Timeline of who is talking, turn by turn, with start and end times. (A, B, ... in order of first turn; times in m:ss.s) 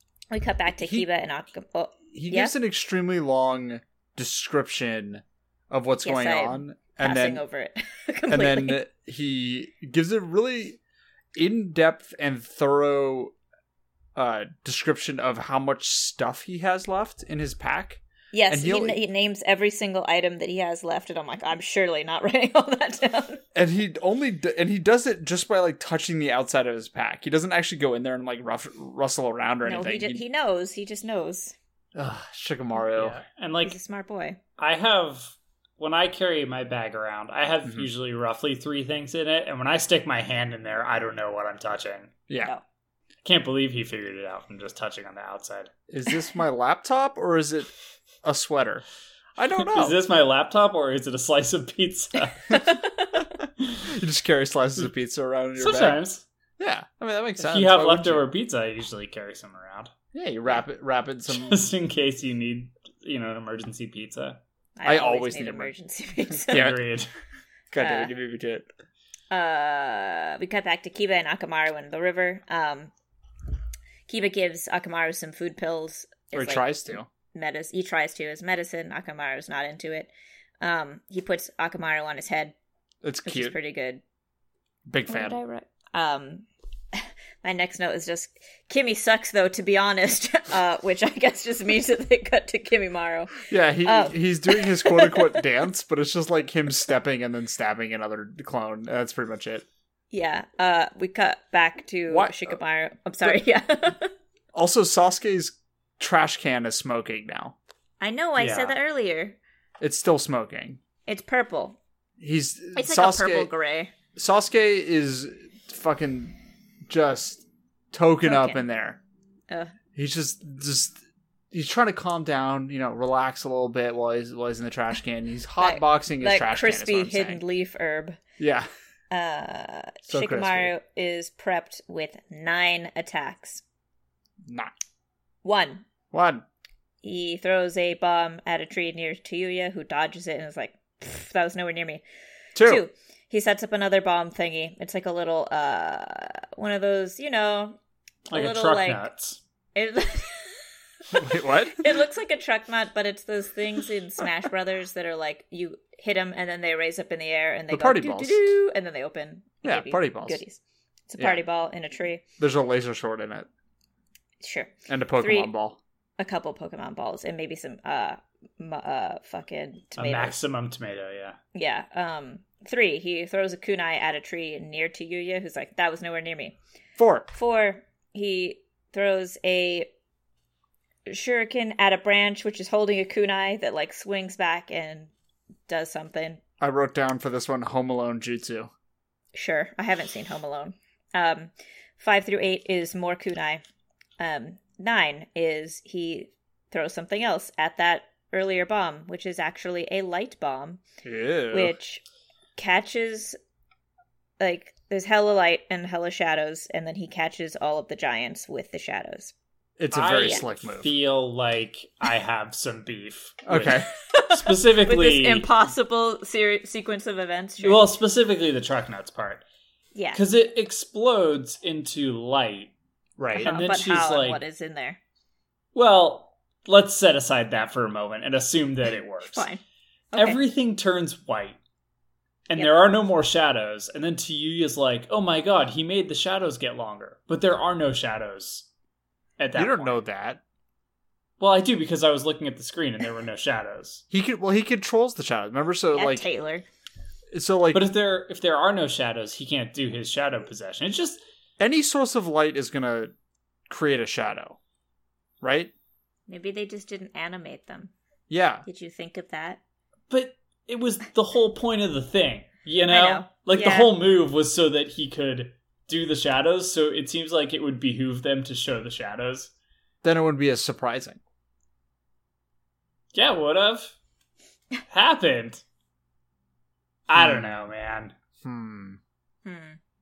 0:00.3-0:02.6 A
0:00.8-0:01.1 B
0:02.1-0:07.4 B
0:06.0-0:08.8 A
0:08.3-0:10.8 B
0:11.4-0:13.3 B
0:14.1-0:19.0 B
0:18.3-0:23.4 A
0:23.6-0:30.2 B
0:29.6-0:31.6 A
0:31.9-0:33.2 B
0:32.9-0:33.8 C
0:33.6-0:34.4 A
0:34.6-0:42.1 C
0:42.3-0:42.5 B
0:43.2-0:45.7 C
0:45.9-0:47.7 B
0:48.2-0:48.8 B
0:49.4-0:50.0 B
0:49.6-0:52.7 C
0:52.5-0:53.2 A
0:53.9-0:56.0 B
0:55.6-0:56.2 C
0:56.6-0:58.2 B
0:57.4-0:59.9 C
1:00.1-1:01.6 B
1:01.3-1:04.4 C
1:04.8-1:06.7 A
1:04.8-1:05.7 B
1:06.5-1:07.1 C
1:06.5-1:06.9 B
1:07.7-1:08.7 B
1:07.8-1:08.1 A
1:09.3-1:12.9 A
1:14.1-1:16.8 A
1:16.3-1:17.1 B
1:17.3-1:20.1 A
1:20.6-1:22.6 A
1:23.0-1:23.6 B
1:23.2-1:24.0 A
1:24.9-1:25.4 B
1:25.1-1:35.4 A
1:33.5-1:39.6 B
1:40.1-1:44.1 A
1:42.1-1:42.6 B
1:44.5-1:47.6 B
1:48.0-1:49.4 A
1:48.4-1:48.8 C
1:49.8-1:50.8 B
1:51.1-1:51.8 A
1:52.2-1:53.5 B
1:52.8-1:53.9 A
1:54.1-1:56.4 B
1:56.9-1:59.0 B
1:58.2-1:58.6 A
1:59.5-1:59.8 A
1:59.9-2:01.0 B
2:01.5-2:07.4 B
2:05.6-2:08.2 A
2:08.4-2:08.7 B
2:09.1-2:13.6 A
2:10.1-2:10.7 B
2:14.5-2:14.7 B
2:15.4-2:15.9 A
2:16.1-2:16.4 B
2:17.0-2:22.0 A
2:22.6-2:22.8 B
2:22.6-2:27.8 A
2:28.3-2:29.4 C
2:28.3-2:29.1 A
2:29.8-2:42.2 A
2:31.1-2:31.9 B
2:37.7-2:38.5 B
2:39.6-2:40.4 B
2:42.4-2:43.5 B
2:44.4-2:45.5 A
2:44.9-2:45.8 B
2:46.2-2:50.4 A
2:50.0-2:51.4 C
2:51.5-2:56.6 A
2:57.0-2:57.3 B
2:57.3-2:59.9 A
3:01.1-3:05.1 A
3:05.7-3:06.4 A
3:06.6-3:08.7 B
3:09.3-3:13.6 A
3:14.2-3:20.8 A
3:21.0-3:21.8 B
3:21.5-3:22.0 A
3:22.6-3:23.4 A
3:24.4-3:29.3 A
3:29.8-3:30.9 B
3:29.9-3:35.5 C
3:33.4-3:33.9 B
3:34.1-3:37.9 A
3:37.6-3:39.4 C
3:39.9-3:40.2 A
3:40.1-3:42.7 C
3:43.2-3:43.6 B
3:43.4-3:44.4 C
3:43.4-3:45.0 A
3:45.7-3:49.4 C
3:49.2-3:49.6 A
3:50.1-3:50.4 A
3:50.1-3:51.6 C
3:52.5-3:58.7 C
3:59.4-3:59.9 C
3:59.6-4:00.4 B
4:01.4-4:04.0 C
4:04.1-4:06.3 B
4:05.9-4:06.6 A
4:07.3-4:07.9 B
4:07.7-4:11.2 C
4:11.6-4:13.1 B
4:13.7-4:14.6 B
4:15.4-4:15.7 B
4:16.3-4:17.9 A
4:18.3-4:18.6 B
4:18.6-4:19.6 A
4:20.1-4:29.5 C
4:22.9-4:23.9 A
4:30.0-4:31.2 B
4:33.1-4:33.9 C
4:34.9-4:35.6 C
4:37.1-4:38.1 C
4:37.2-4:37.6 B
4:38.4-4:39.0 B
4:39.4-4:39.8 A